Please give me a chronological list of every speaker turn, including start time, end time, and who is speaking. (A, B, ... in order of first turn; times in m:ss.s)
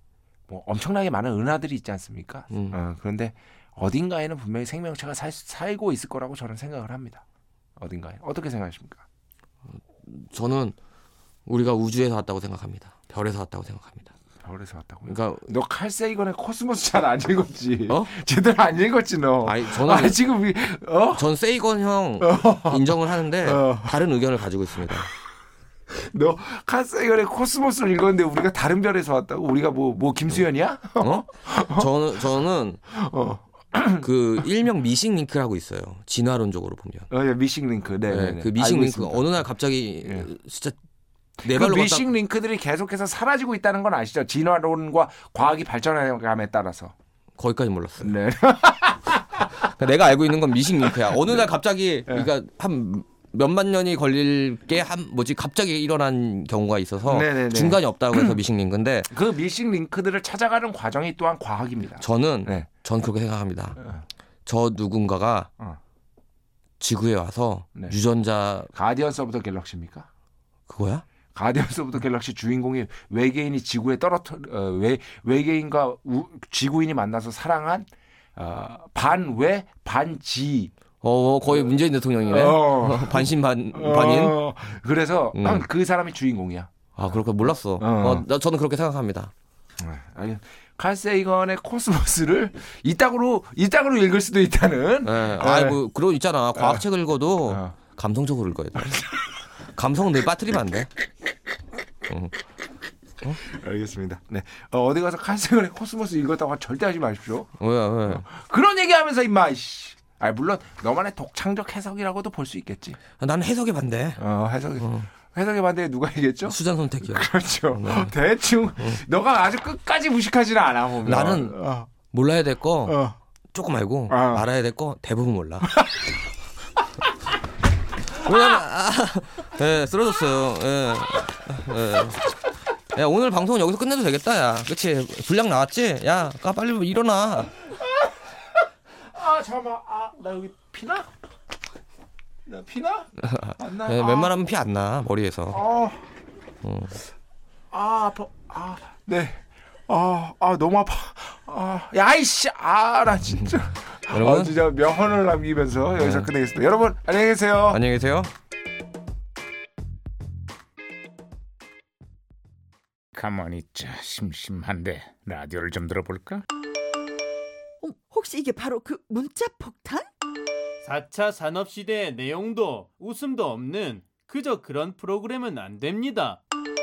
0:00.5-0:07.2 A
0:02.5-0:02.8 B
0:07.8-0:09.0 A
0:09.9-0:10.8 B
0:11.4-0:14.1 B
0:14.4-0:21.3 A
0:15.0-0:15.5 B
0:17.9-0:18.2 B
0:19.4-0:20.2 B
0:21.1-0:25.1 B
0:22.2-0:24.0 A
0:25.9-0:31.9 A
0:31.0-0:32.9 B
0:32.9-0:34.0 A
0:33.9-0:37.1 B
0:37.1-0:39.4 A
0:38.1-0:40.8 B
0:40.0-0:40.3 A
0:41.4-0:46.9 A
0:41.4-0:42.1 B
0:47.4-0:48.2 B
0:48.0-0:49.4 A
0:49.4-0:59.1 B
0:50.8-0:51.4 A
0:57.0-0:58.4 A
0:59.1-1:02.7 A
1:02.0-1:03.8 B
1:03.8-1:04.0 A
1:04.4-1:05.5 B
1:06.8-1:08.7 B
1:08.7-1:10.1 A
1:10.7-1:11.0 B
1:11.3-1:20.7 A
1:21.0-1:24.5 B
1:21.5-1:21.7 A
1:22.2-1:26.7 A
1:25.3-1:25.7 B
1:27.0-1:29.3 B
1:27.7-1:28.2 A
1:29.8-1:35.8 A
1:35.0-1:39.1 B
1:36.5-1:36.8 A
1:37.5-1:37.7 A
1:39.7-1:40.9 B
1:42.1-1:42.3 B
1:43.3-1:47.5 A
1:47.6-1:48.3 B
1:48.0-1:53.0 A
1:53.2-1:54.2 B
1:54.2-2:01.9 A
1:54.8-1:55.1 B
1:56.4-1:58.1 B
2:01.0-2:05.8 B
2:02.9-2:03.2 A
2:04.1-2:04.5 A
2:08.1-2:12.3 B
2:12.9-2:17.6 B
2:19.0-2:21.1 A
2:22.4-2:24.4 A
2:23.2-2:25.6 B
2:25.5-2:26.1 A
2:26.6-2:27.0 B
2:27.7-2:37.8 A
2:34.1-2:34.6 B
2:36.0-2:36.3 B
2:37.7-2:38.3 B
2:43.2-2:46.4 C
2:47.8-2:50.1 D
2:48.8-2:49.9 C
2:50.8-2:56.4 E